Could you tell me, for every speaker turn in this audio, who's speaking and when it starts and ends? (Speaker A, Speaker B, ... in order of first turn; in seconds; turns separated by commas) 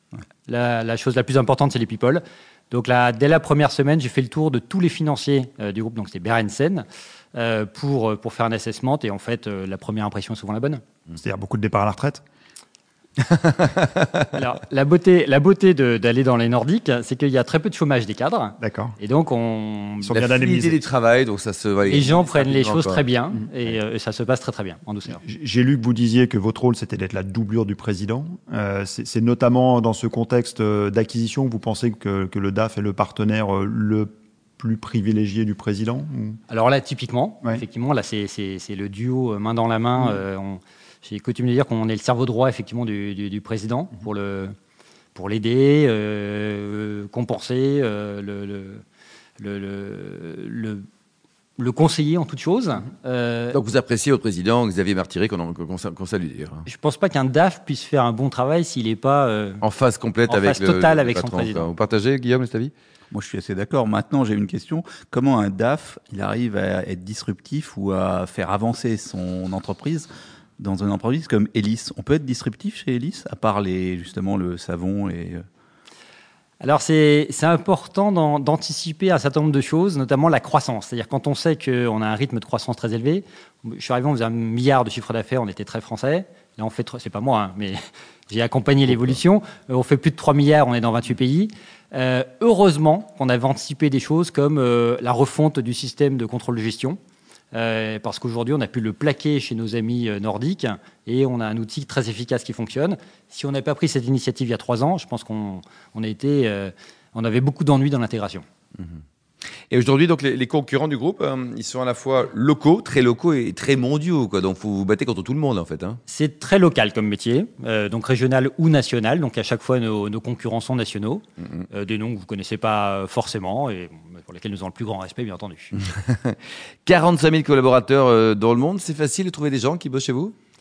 Speaker A: 0.5-10.8, Speaker B: 11.1-12.2, Speaker A: 14.3-20.1, Speaker B: 18.6-18.9, Speaker B: 20.0-20.8, Speaker C: 20.1-23.0, Speaker A: 21.9-25.2, Speaker B: 25.2-36.4, Speaker A: 36.5-44.5, Speaker A: 45.1-48.8, Speaker A: 49.4-50.8, Speaker A: 51.6-53.6, Speaker C: 53.5-56.6, Speaker A: 56.7-59.6, Speaker C: 59.6-62.7, Speaker A: 60.3-61.7, Speaker D: 63.1-75.4, Speaker A: 76.6-97.0, Speaker A: 97.5-108.4, Speaker C: 109.7-116.0, Speaker A: 116.1-125.7, Speaker C: 126.0-130.3